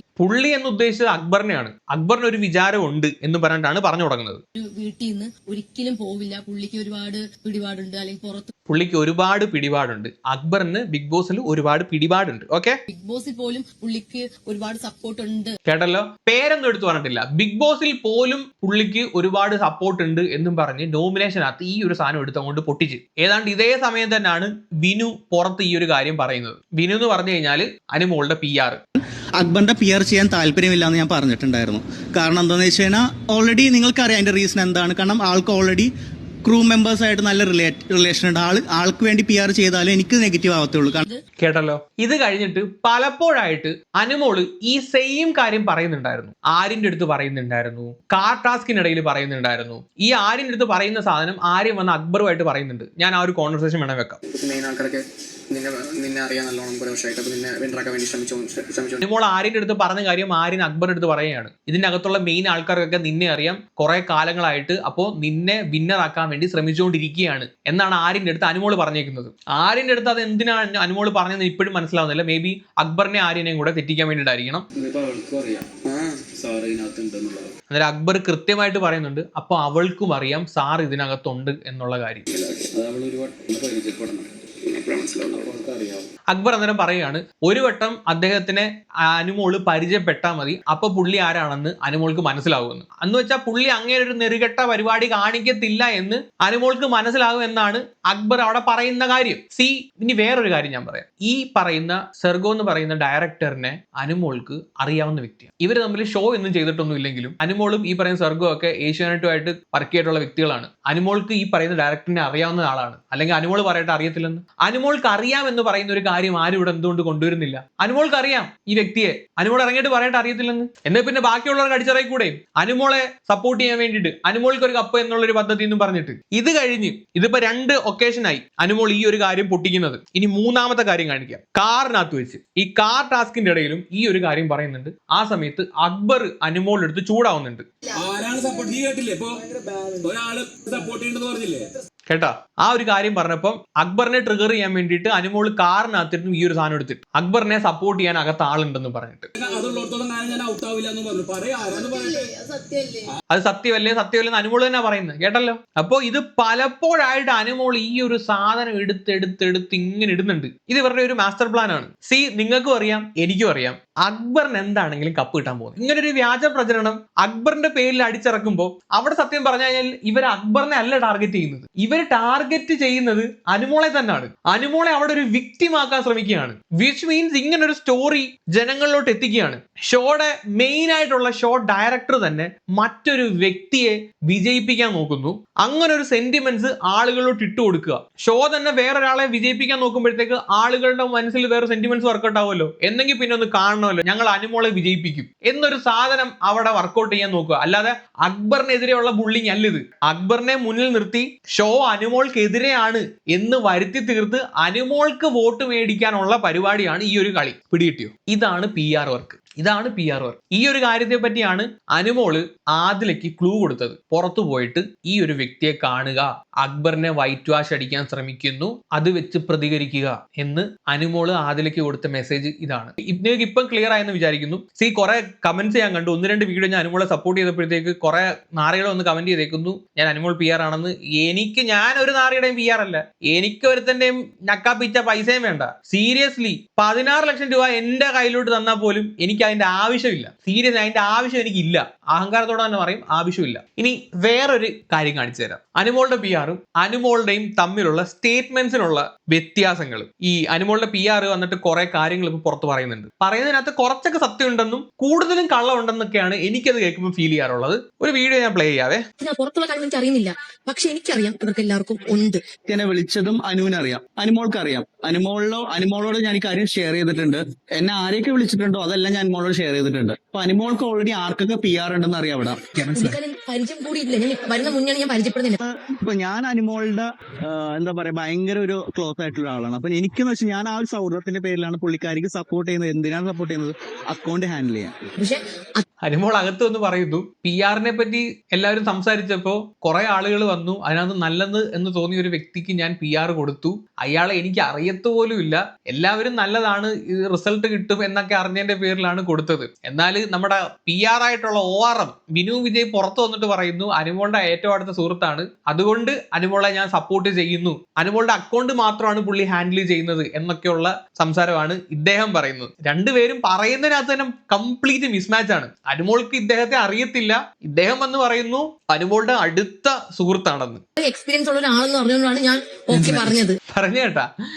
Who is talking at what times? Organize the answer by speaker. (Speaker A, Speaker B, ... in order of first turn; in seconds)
Speaker A: 0.2-4.4, 8.7-12.8, 15.7-28.8, 41.4-54.2, 59.0-74.6, 77.7-82.2, 86.3-137.6, 142.1-149.3, 153.3-259.0, 286.0-320.8, 323.7-324.3
Speaker B: 4.6-8.5, 12.9-15.5, 151.7-153.1, 259.2-262.4, 272.9-275.6, 285.2-285.8, 321.0-323.6
Speaker C: 29.4-35.9, 36.4-41.0, 262.7-273.2, 275.6-285.0
Speaker D: 54.3-59.0, 76.0-76.3, 84.7-85.3
Speaker E: 74.8-77.5, 82.3-84.3, 84.9-86.1, 138.0-141.6, 149.4-152.1